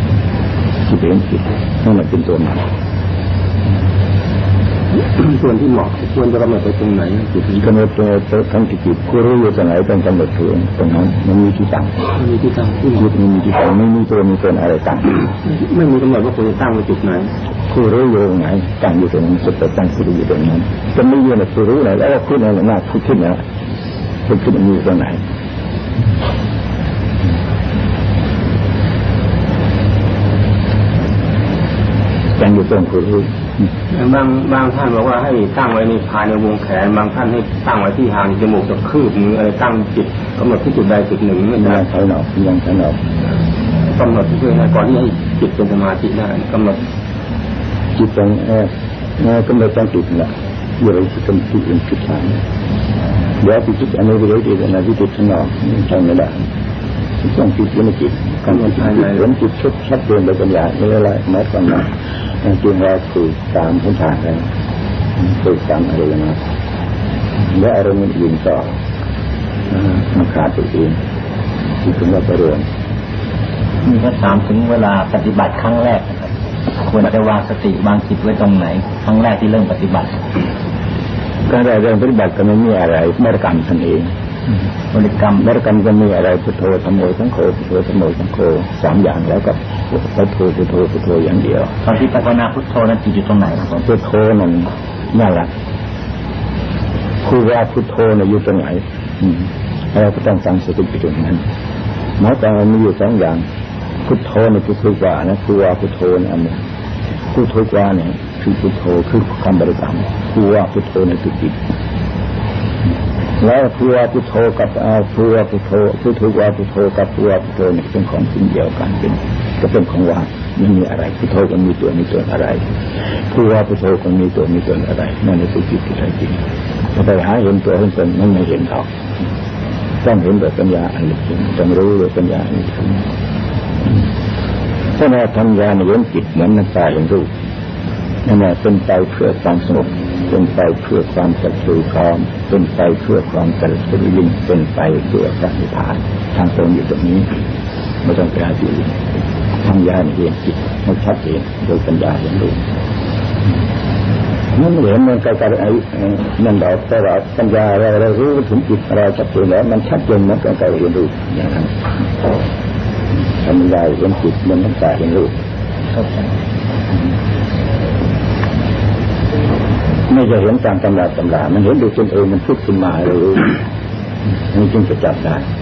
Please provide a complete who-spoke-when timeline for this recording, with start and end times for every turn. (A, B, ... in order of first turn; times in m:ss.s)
0:00.9-0:02.6 A
0:05.0-0:07.7 B
0:07.6-0:12.0 A
0:12.2-0:13.0 B
0:13.0-0:15.2 A
0:15.4-0:17.3 B
0:17.7-0:23.4 A
0:24.3-0:25.2 A
0:32.4-0:33.4 A
0:33.9-0:41.8 B
0:41.6-0:43.0 A
0:43.9-0:46.8 B
0:48.0-0:52.4 A
0:53.4-0:56.4 A
0:57.2-1:04.4 A
0:58.5-0:59.2 B
1:05.2-1:06.4 A
1:07.5-1:08.8 A
1:09.8-1:11.0 A
1:11.8-1:12.6 A
1:13.8-1:16.3 C
1:16.8-1:20.2 C
1:21.5-1:24.1 A
1:24.9-1:25.5 C
1:25.4-1:31.8 A
1:31.8-1:33.8 C
1:33.8-1:35.5 A
1:37.2-1:41.4 A
1:42.2-1:43.4 A
1:44.0-1:46.6 A
1:47.3-1:51.6 A
1:53.4-2:02.6 A
2:03.3-2:06.4 A
2:07.0-2:08.9 A
2:10.0-2:13.1 A
2:15.0-2:17.3 A
2:18.3-2:27.3 A
2:28.0-2:29.0 A
2:29.6-2:32.6 A
2:34.6-2:41.7 A
2:43.4-2:45.4 A
2:50.1-2:53.6 A
2:54.5-2:55.4 A